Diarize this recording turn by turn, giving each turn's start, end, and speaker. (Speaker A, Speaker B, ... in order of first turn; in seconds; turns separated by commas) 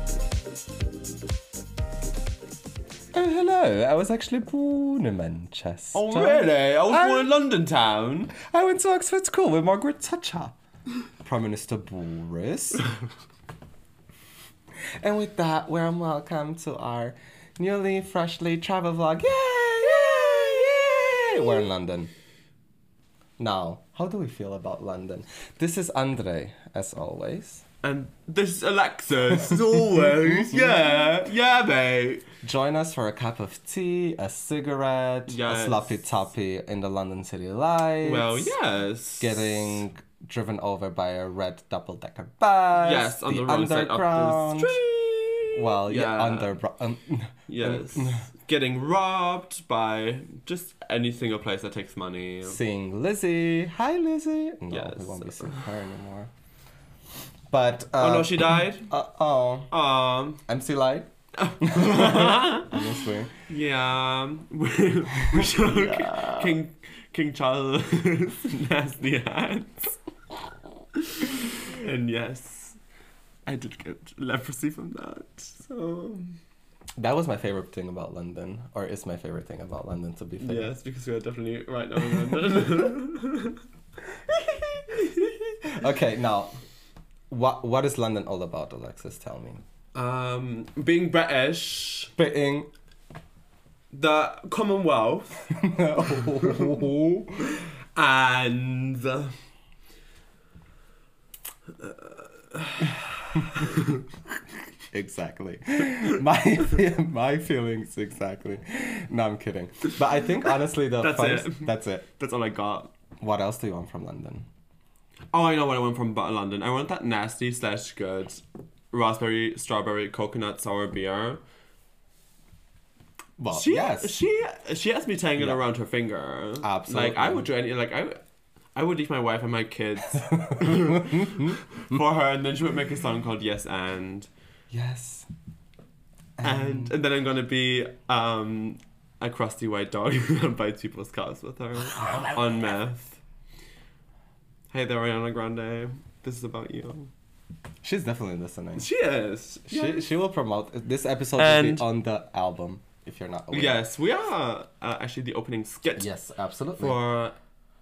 Speaker A: 3.1-7.3, Speaker B: 5.9-8.3, Speaker A: 8.3-10.6, Speaker A: 11.2-12.9, Speaker A: 15.0-22.1, Speaker B: 21.0-21.2, Speaker A: 23.4-27.6, Speaker B: 27.8-32.2, Speaker A: 30.3-31.0, Speaker A: 32.4-38.5, Speaker B: 35.3-36.0, Speaker B: 38.0-39.8, Speaker A: 39.2-44.8, Speaker B: 42.7-46.6, Speaker A: 45.5-48.3, Speaker B: 47.5-52.6, Speaker A: 52.4-56.3, Speaker B: 54.7-55.7, Speaker A: 57.5-59.7, Speaker B: 58.0-58.9, Speaker B: 59.7-60.4, Speaker A: 60.5-61.1, Speaker B: 61.4-62.8, Speaker A: 61.6-63.3, Speaker B: 63.5-70.0, Speaker A: 65.3-66.6, Speaker B: 70.9-72.8, Speaker B: 73.5-76.4, Speaker A: 77.0-80.7, Speaker B: 80.4-83.6, Speaker A: 84.3-86.6, Speaker B: 84.9-85.3, Speaker A: 87.3-89.6, Speaker B: 89.9-92.1, Speaker A: 92.2-92.7, Speaker B: 93.9-96.7, Speaker A: 95.5-97.4, Speaker B: 97.4-99.3, Speaker B: 101.8-104.0, Speaker A: 103.3-103.7, Speaker A: 104.9-112.0, Speaker B: 110.7-112.9, Speaker A: 113.2-114.5, Speaker B: 115.3-121.4, Speaker A: 123.4-124.2, Speaker B: 123.5-128.2, Speaker A: 126.6-127.5, Speaker B: 128.7-134.3, Speaker A: 130.1-131.6, Speaker A: 134.7-135.3, Speaker A: 136.4-136.9, Speaker B: 136.4-143.2, Speaker A: 141.9-142.7, Speaker B: 144.7-147.1, Speaker A: 147.8-148.9, Speaker B: 148.8-150.1, Speaker A: 149.7-153.8, Speaker B: 151.4-151.9, Speaker B: 153.5-156.1, Speaker A: 156.0-157.0, Speaker B: 156.8-157.3